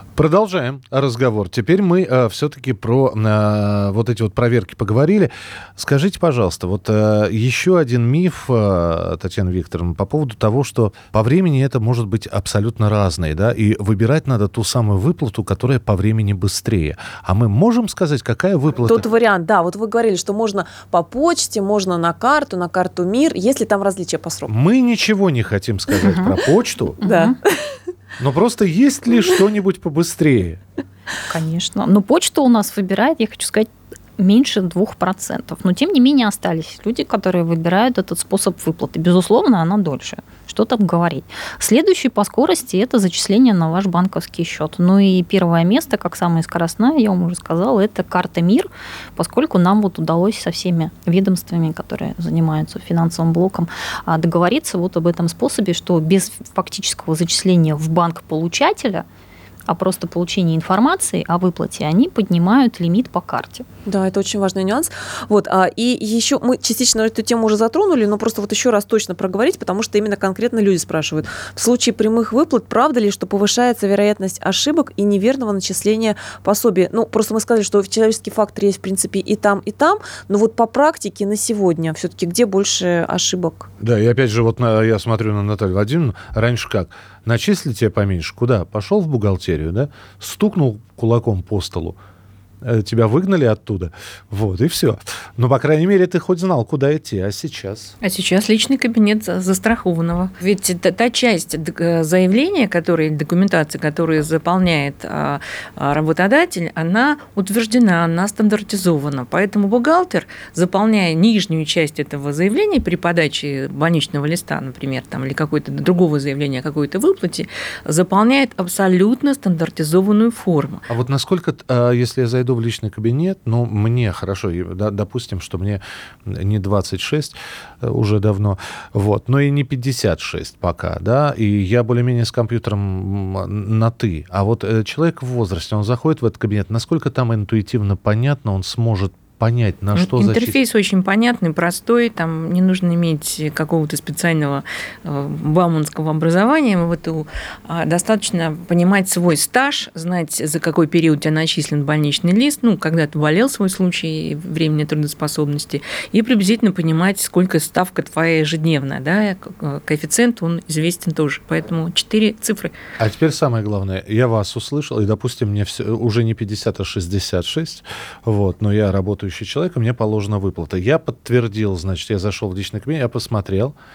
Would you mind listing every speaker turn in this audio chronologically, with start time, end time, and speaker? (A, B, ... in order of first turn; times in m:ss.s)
0:00.2-0:19.0 A
0:18.9-0:24.5 B
0:24.5-0:27.0 A
0:26.0-0:26.3 C
0:27.0-0:27.3 C
0:27.0-0:27.7 B
0:28.2-0:30.6 A
0:31.3-0:59.0 C
0:59.7-1:03.6 C
1:03.8-1:23.7 B
1:23.8-1:32.0 A
1:32.6-1:37.9 A
1:38.0-2:00.8 D
2:00.9-2:20.6 A
2:20.0-2:42.7 D
2:43.0-2:53.7 A